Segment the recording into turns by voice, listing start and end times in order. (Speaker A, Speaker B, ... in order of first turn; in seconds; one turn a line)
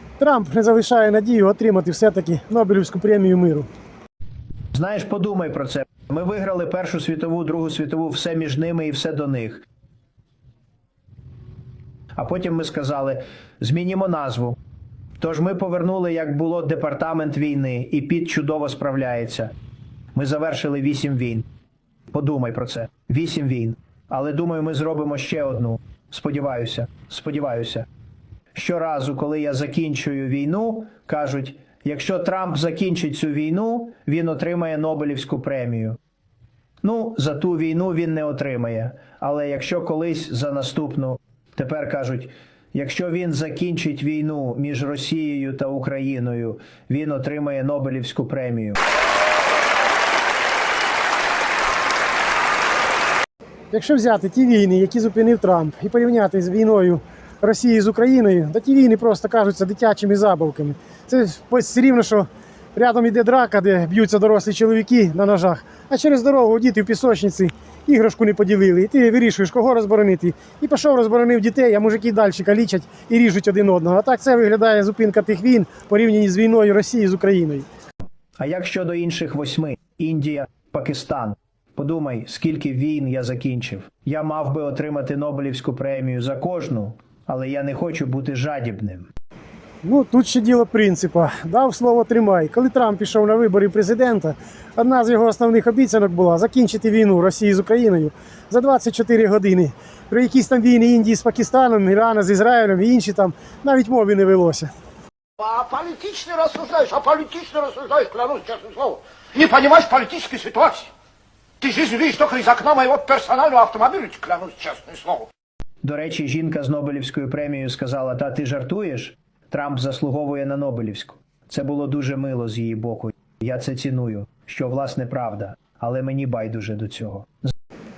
Speaker A: 0.2-3.7
Speaker B: 4.7-9.7
Speaker B: 12.2-14.6
Speaker B: 15.2-19.5
Speaker B: 20.1-21.5
Speaker B: 22.1-27.9
Speaker B: 28.6-36.0
Speaker B: 36.8-48.8
Speaker A: 53.7-77.7
Speaker B: 78.4-89.1
Speaker A: 89.8-104.7
Speaker C: 105.4-110.9
Speaker C: 111.6-115.3
Speaker B: 115.8-127.5